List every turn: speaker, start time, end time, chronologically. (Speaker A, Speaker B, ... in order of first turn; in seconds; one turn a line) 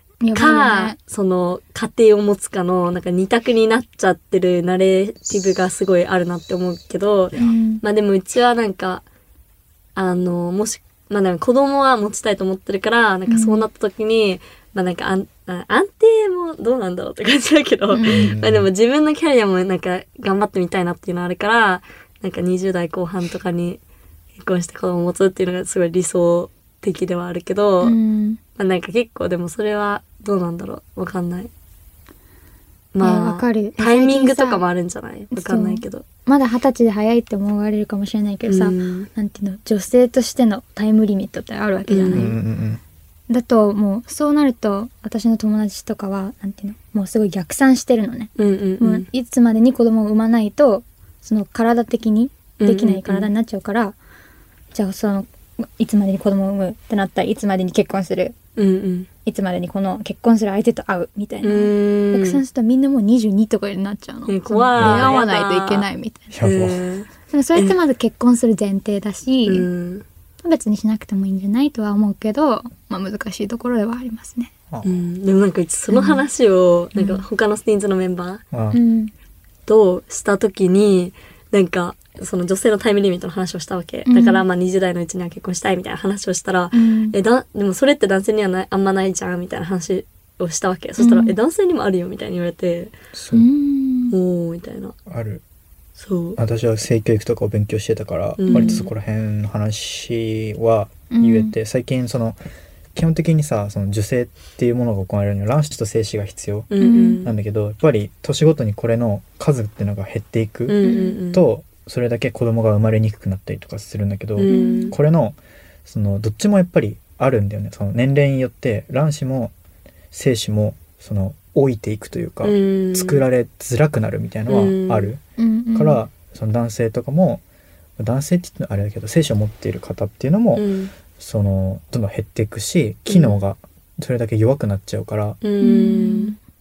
Speaker A: 0.2-1.0
Speaker B: 0.3-9.0
Speaker A: 7.3-7.8
Speaker B: 9.9-23.8
Speaker A: 13.3-13.7
Speaker A: 17.9-18.3
Speaker C: 18.0-18.7
Speaker B: 24.4-28.0
Speaker A: 27.8-28.4
Speaker B: 28.6-31.5
Speaker B: 32.9-36.0
Speaker A: 33.0-34.6
Speaker A: 35.3-42.4
Speaker B: 38.5-39.1
Speaker B: 41.9-42.3
Speaker C: 42.1-42.8
Speaker A: 43.3-54.0
Speaker B: 48.4-49.1
Speaker B: 52.6-53.3
Speaker A: 54.7-58.4
Speaker B: 58.5-59.1
Speaker A: 59.2-66.3
Speaker B: 61.4-62.4
Speaker B: 64.3-65.9
Speaker C: 64.8-65.2
Speaker C: 66.3-66.8
Speaker B: 66.4-67.8
Speaker A: 67.3-69.7
Speaker B: 69.5-70.0
Speaker A: 70.4-74.5
Speaker C: 74.7-75.0
Speaker B: 74.8-78.4
Speaker A: 75.9-76.2
Speaker A: 76.9-77.2
Speaker C: 78.5-78.8
Speaker A: 78.7-79.1
Speaker B: 79.7-92.9
Speaker A: 84.0-84.4
Speaker A: 86.7-87.2
Speaker A: 91.0-91.3
Speaker C: 93.1-93.5
Speaker A: 93.3-94.1
Speaker B: 94.1-95.0
Speaker C: 95.1-95.4
Speaker B: 96.0-96.4
Speaker C: 96.4-102.4
Speaker B: 98.4-98.9
Speaker A: 98.5-98.8
Speaker A: 101.1-101.5
Speaker C: 102.9-106.7
Speaker B: 106.7-107.3
Speaker A: 106.8-107.2
Speaker C: 107.2-110.8
Speaker B: 110.7-111.5
Speaker A: 110.8-111.2
Speaker C: 111.3-119.5
Speaker B: 114.3-115.0
Speaker A: 114.5-115.0
Speaker C: 120.1-125.2
Speaker B: 122.4-123.2
Speaker B: 124.5-125.1
Speaker A: 125.4-126.0
Speaker C: 125.7-127.4
Speaker C: 128.0-135.4
Speaker B: 130.6-130.9
Speaker B: 133.1-133.4
Speaker B: 135.4-136.3
Speaker A: 135.6-136.4